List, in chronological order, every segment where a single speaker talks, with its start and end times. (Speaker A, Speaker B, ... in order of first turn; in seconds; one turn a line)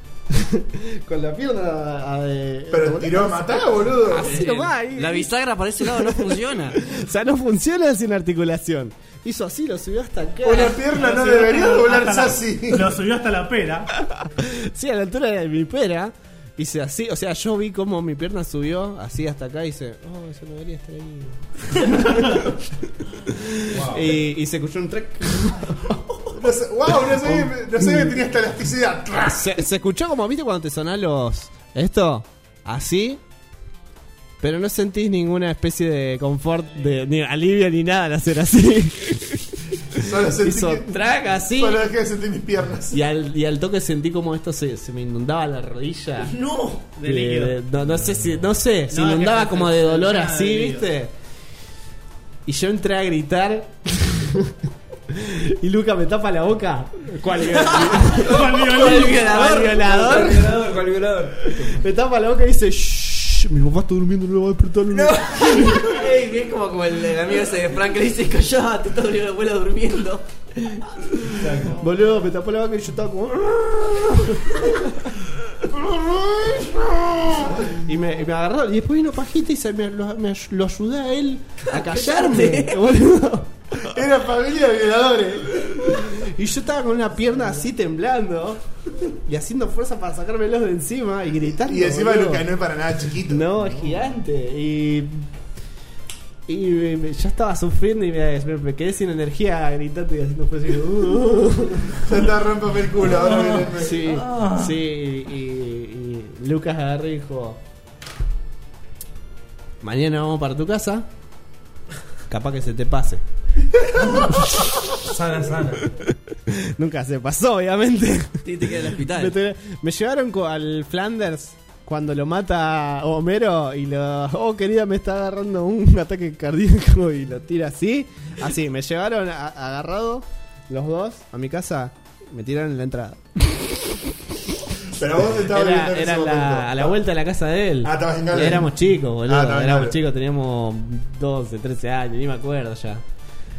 Speaker A: 0.3-10.8
Speaker B: 2.7-4.4
Speaker C: 4.1-6.8
Speaker B: 10.4-13.0
Speaker D: 10.5-13.9
Speaker A: 13.9-28.2
Speaker D: 22.0-22.4
Speaker E: 23.7-24.0
Speaker B: 26.3-29.6
Speaker A: 29.1-33.2
Speaker A: 34.4-41.9
Speaker B: 39.9-40.9
Speaker B: 41.5-43.0
Speaker A: 42.9-46.3
Speaker C: 46.2-46.8
Speaker D: 46.8-47.6
Speaker A: 47.0-51.1
Speaker D: 48.9-50.9
Speaker A: 52.5-60.6
Speaker C: 57.5-60.5
Speaker D: 58.0-59.5
Speaker E: 59.6-61.8
Speaker A: 61.4-66.0
Speaker C: 64.9-70.2
Speaker A: 70.7-74.8
Speaker E: 71.4-71.7
Speaker A: 75.7-83.9
Speaker C: 81.7-82.8
Speaker B: 83.7-86.2
Speaker A: 85.5-92.5
Speaker B: 91.7-93.8
Speaker A: 93.1-95.3
Speaker A: 96.5-102.3
Speaker B: 101.9-104.0
Speaker D: 103.2-104.8
Speaker A: 103.7-107.6
Speaker A: 109.8-111.1
Speaker A: 112.3-113.2
Speaker A: 114.3-114.9
Speaker E: 115.0-115.9
Speaker A: 115.6-134.0
Speaker C: 118.4-119.3
Speaker B: 134.9-137.0
Speaker A: 135.2-143.0
Speaker B: 137.8-140.0